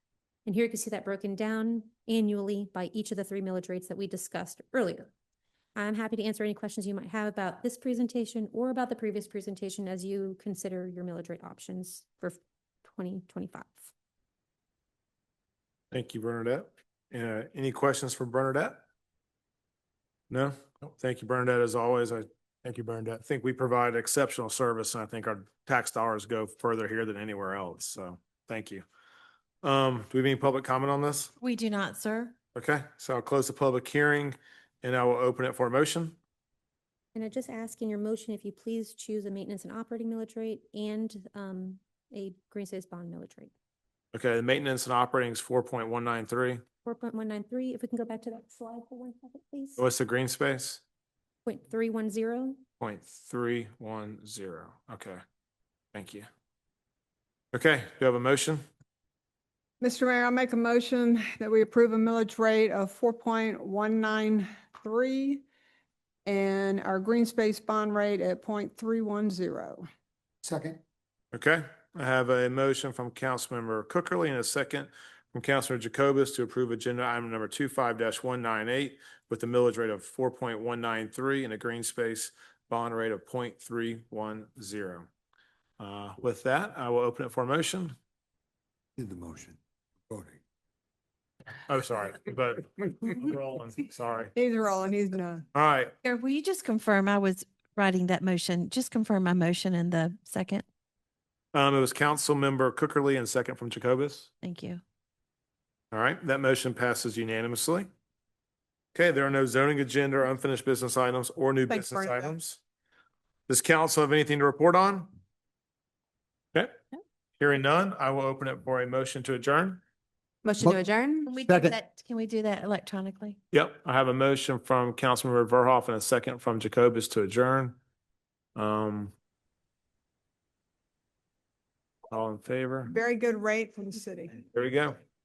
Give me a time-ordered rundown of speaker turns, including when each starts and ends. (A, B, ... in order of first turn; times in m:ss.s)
0:00.4-0:05.1 A
0:05.8-0:13.9 A
0:15.9-0:18.8 B
0:20.3-0:28.8 B
0:29.6-0:31.3 B
0:31.4-0:32.4 C
0:32.6-0:36.2 B
0:37.2-0:43.5 A
0:44.1-0:46.6 B
0:46.8-0:49.8 A
0:49.8-0:50.8 B
0:51.5-0:52.6 A
0:52.8-0:55.2 B
0:55.9-0:56.3 B
0:57.5-0:58.6 B
0:59.8-1:05.4 D
1:06.3-1:09.8 D
1:10.4-1:10.8 E
1:11.3-1:25.1 B
1:25.8-1:28.0 B
1:29.0-1:30.4 E
1:31.7-1:34.3 B
1:34.4-1:35.4 D
1:35.5-1:36.0 B
1:36.0-1:40.6 C
1:41.5-1:44.3 B
1:44.4-1:44.8 C
1:45.9-1:47.9 B
1:48.9-1:52.6 B
1:51.7-1:52.3 D
1:53.5-1:55.1 B
1:56.5-1:56.8 B
1:57.4-1:59.8 B
2:00.4-2:01.3 D
2:01.3-2:03.4 C
2:01.5-2:01.8 E
2:03.5-2:07.8 B
2:08.6-2:09.1 B
2:12.1-2:12.9 B
2:12.9-2:14.4 D
2:14.5-2:15.0 B